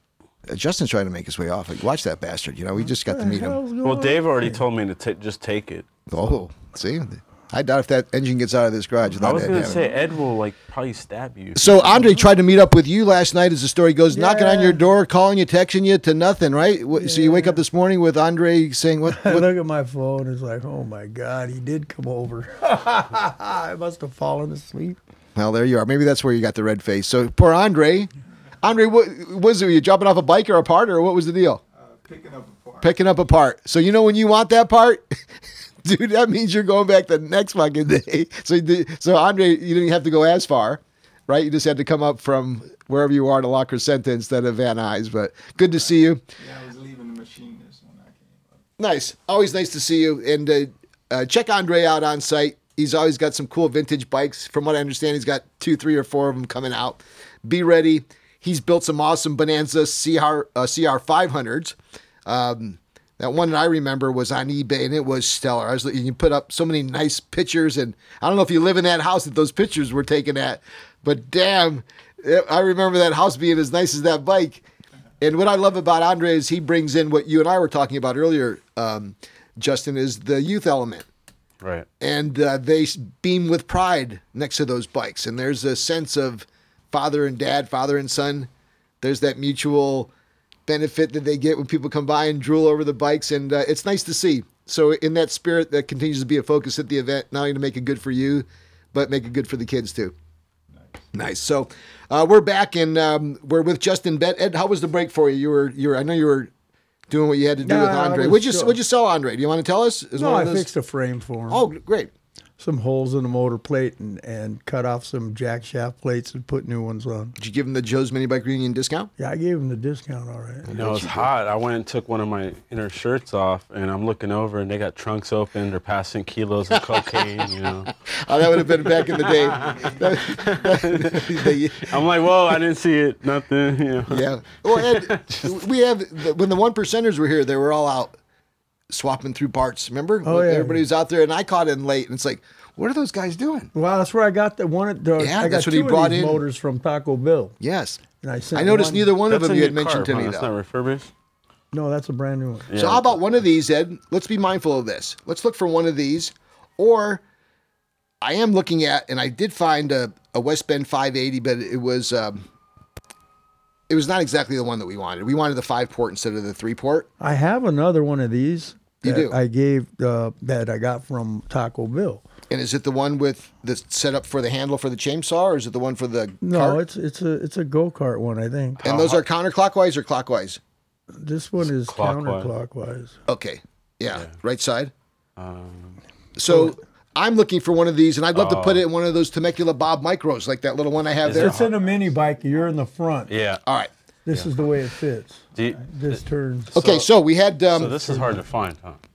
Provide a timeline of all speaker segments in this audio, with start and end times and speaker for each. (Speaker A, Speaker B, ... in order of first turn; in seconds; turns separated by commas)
Speaker A: 0.5-3.6, Speaker B: 3.0-4.6, Speaker C: 3.8-5.9, Speaker A: 6.1-9.8, Speaker C: 9.2-11.8, Speaker A: 11.5-19.5, Speaker B: 14.1-14.8, Speaker B: 16.9-17.6, Speaker B: 19.1-25.0, Speaker A: 25.4-28.1, Speaker A: 28.6-31.6, Speaker D: 31.8-32.9, Speaker A: 32.8-35.2, Speaker A: 35.8-46.2, Speaker D: 46.4-48.6, Speaker A: 48.8-74.6, Speaker A: 75.2-81.0, Speaker C: 81.6-81.9, Speaker A: 82.0-88.5, Speaker A: 89.0-90.1, Speaker A: 90.7-100.1, Speaker A: 101.1-106.5, Speaker A: 107.1-110.7, Speaker B: 107.6-108.8, Speaker B: 110.2-111.7, Speaker A: 111.5-112.1, Speaker B: 112.6-117.3, Speaker A: 117.4-119.1, Speaker B: 119.2-120.7, Speaker A: 120.7-121.3, Speaker C: 120.7-127.9, Speaker A: 128.1-132.0, Speaker C: 128.7-135.6, Speaker A: 134.1-138.2, Speaker A: 138.9-143.7, Speaker B: 140.2-140.8, Speaker B: 143.7-147.6, Speaker A: 145.2-146.4, Speaker A: 147.6-148.0, Speaker B: 148.2-149.1, Speaker A: 148.5-150.5, Speaker C: 149.3-151.1, Speaker B: 151.7-152.7, Speaker C: 152.7-153.2, Speaker A: 152.7-157.2, Speaker A: 158.2-162.4, Speaker A: 163.9-167.1, Speaker B: 167.2-172.2, Speaker A: 169.0-169.3, Speaker A: 172.5-176.8, Speaker B: 176.4-178.8, Speaker C: 178.8-179.2, Speaker A: 178.8-180.6, Speaker B: 181.2-183.2, Speaker C: 181.6-182.5, Speaker A: 183.3-184.9, Speaker C: 185.4-186.0, Speaker A: 186.3-191.6, Speaker B: 186.5-186.7, Speaker C: 188.3-188.8, Speaker C: 191.2-191.8, Speaker B: 191.3-193.3, Speaker C: 193.3-193.6, Speaker A: 193.7-193.9, Speaker B: 194.2-197.0, Speaker C: 195.5-196.2, Speaker A: 196.7-198.0, Speaker C: 197.7-199.0, Speaker B: 197.8-198.3